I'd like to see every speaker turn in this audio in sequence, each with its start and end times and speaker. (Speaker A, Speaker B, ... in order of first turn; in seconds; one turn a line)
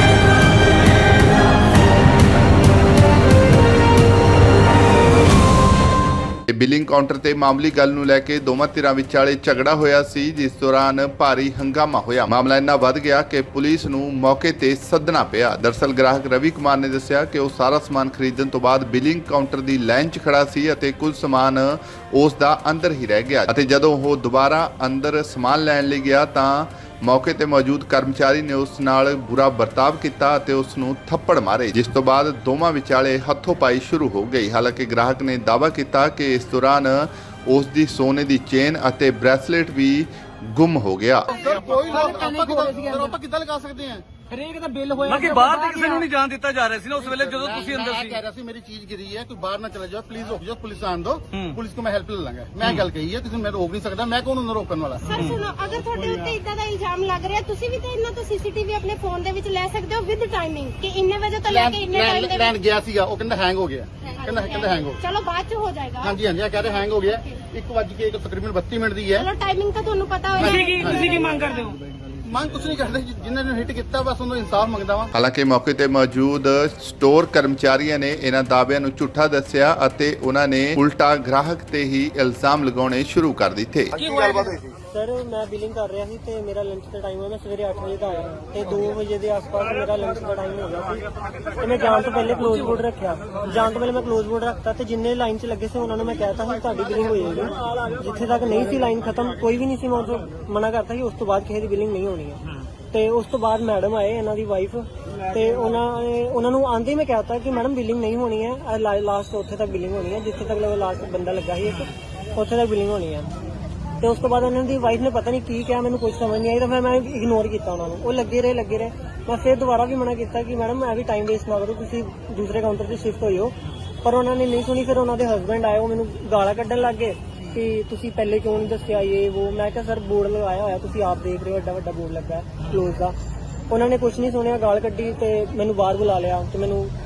Speaker A: 6.5-41.4
Speaker B: 41.3-44.0
Speaker C: 41.4-43.2
Speaker C: 44.3-46.1
Speaker D: 45.0-48.2
Speaker B: 46.9-55.3
Speaker E: 55.0-62.5
Speaker B: 61.4-65.0
Speaker E: 64.1-66.2
Speaker B: 66.0-69.3
Speaker E: 69.2-71.4
Speaker B: 70.4-71.2
Speaker C: 70.4-71.8
Speaker B: 72.2-75.1
Speaker A: 75.1-83.9
Speaker C: 84.0-84.6
Speaker F: 84.9-91.0
Speaker F: 91.5-113.3
Speaker C: 92.5-92.7
Speaker F: 114.0-133.1
Speaker F: 133.7-136.9